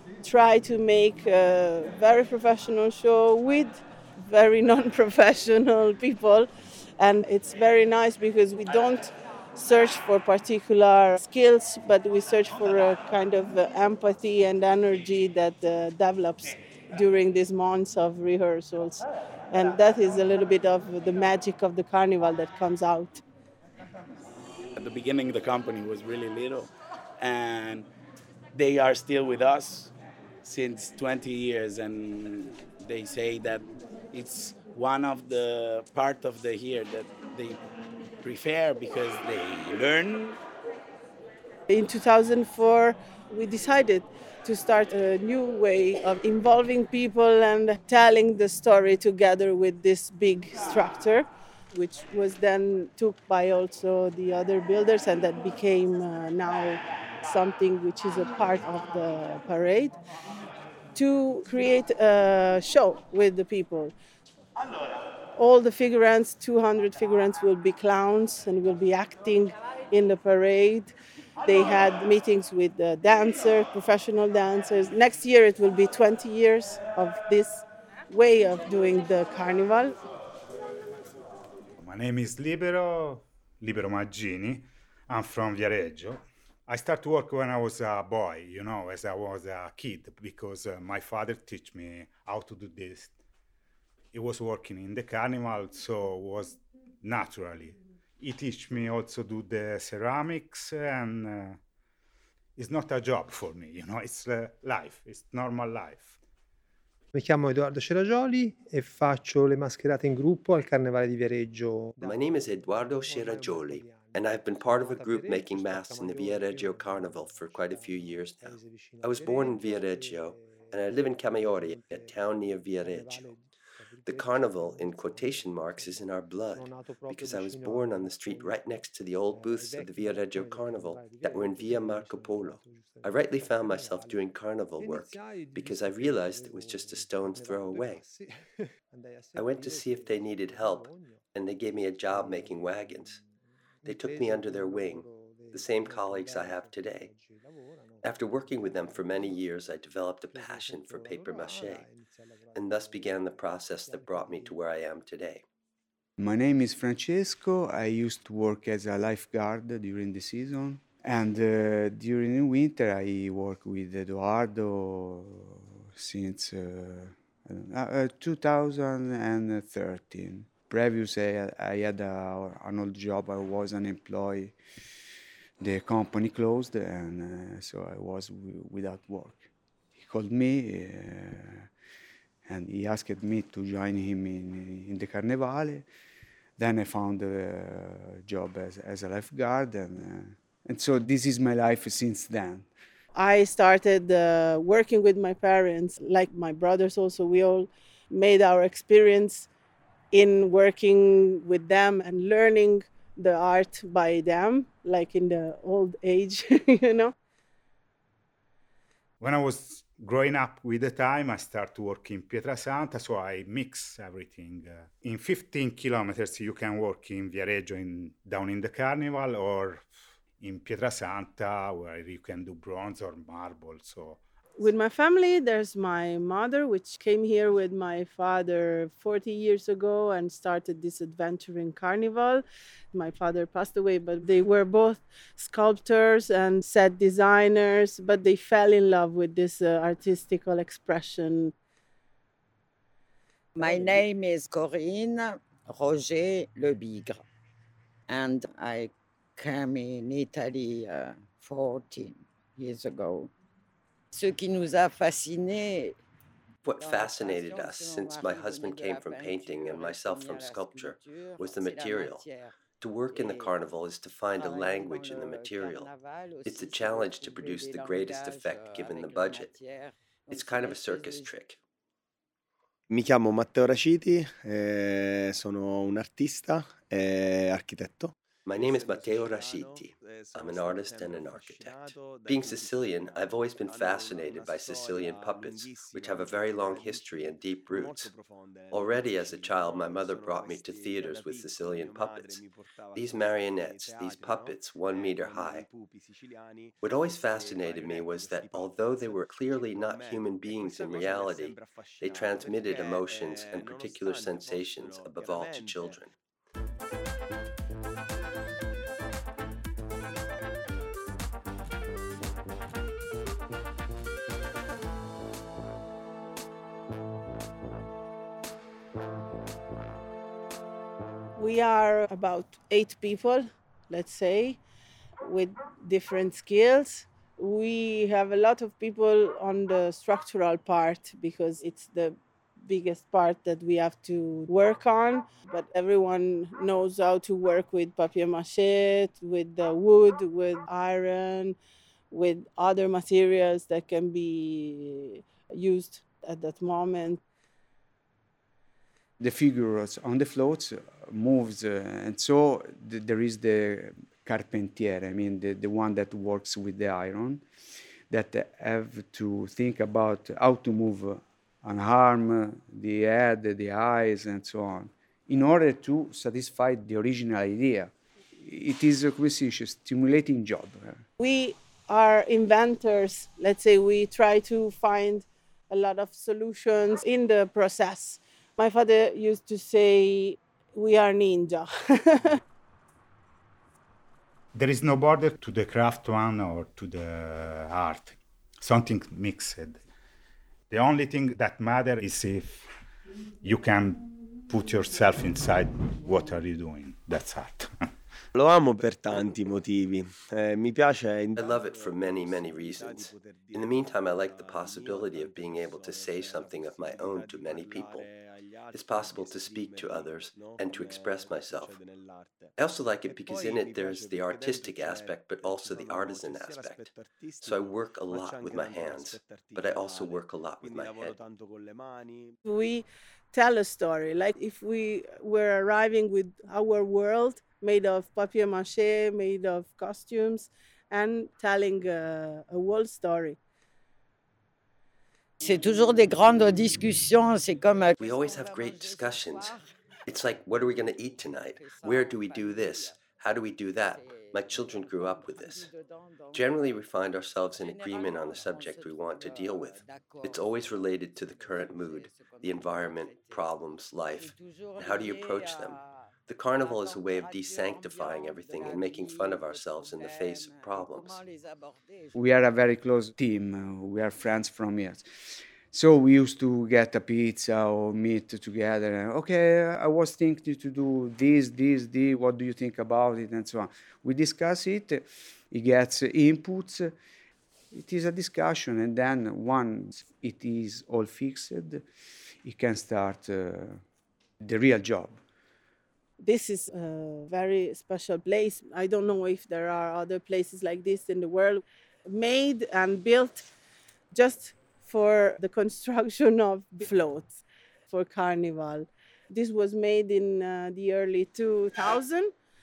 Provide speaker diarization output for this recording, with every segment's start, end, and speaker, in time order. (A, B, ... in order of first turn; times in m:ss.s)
0:00.2-0:23.2 A
0:24.8-0:27.9 B
0:28.5-0:37.6 B
0:38.2-0:40.4 B
0:41.7-1:00.0 A
1:01.0-1:03.9 A
1:05.4-1:10.9 A
1:11.4-1:20.0 A
1:21.8-1:33.1 C
1:34.1-1:41.6 C
1:42.6-1:46.2 C
1:47.1-1:52.1 D
1:52.0-2:03.4 E
1:53.8-1:54.1 D
2:04.0-2:18.0 E
2:19.4-2:23.2 E
2:23.8-2:27.1 E
2:28.0-2:31.9 E
2:32.5-2:35.4 E
2:36.2-2:54.6 F
2:55.6-3:01.7 F
3:02.5-3:05.8 F
3:06.6-3:12.7 F
3:13.2-3:19.5 A
3:20.1-3:27.1 A
3:29.2-3:39.9 C
3:40.4-3:44.2 C
3:44.6-4:01.5 A
4:03.6-4:07.2 G
4:08.1-4:13.3 G
4:14.1-4:16.0 G
4:16.6-4:22.2 E
4:16.8-4:22.5 G
4:22.8-4:25.9 E
4:23.1-4:23.5 G
4:24.4-4:31.3 G
4:26.4-4:29.5 E
4:30.3-4:31.6 E
4:32.9-4:38.1 H
4:38.5-4:48.1 E
4:48.7-4:55.7 E
4:56.8-5:06.1 E
5:21.4-5:24.6 A
5:25.2-5:41.6 A
5:42.1-5:47.2 A
5:49.2-5:57.4 F
5:58.1-6:11.0 F
6:11.2-6:22.4 A
6:24.5-6:29.8 C
6:30.7-6:32.7 C
6:33.4-6:37.8 C
6:38.3-6:41.4 H
6:41.4-6:48.1 E
6:48.7-6:51.8 E
6:52.6-7:01.2 E
7:02.4-7:13.4 A
7:15.4-7:19.6 G
7:18.0-7:19.6 E
7:20.1-7:25.7 E
7:21.6-7:22.9 G
7:25.5-7:26.5 G
7:26.3-7:41.2 E
7:27.6-7:30.4 G
7:31.6-7:33.3 G
7:34.2-7:35.8 G
7:36.7-7:42.1 G
7:42.1-7:56.9 F
7:57.7-8:01.8 F
8:02.4-8:03.8 F
8:04.4-8:05.2 F
8:06.2-8:13.4 A
8:14.1-8:22.3 A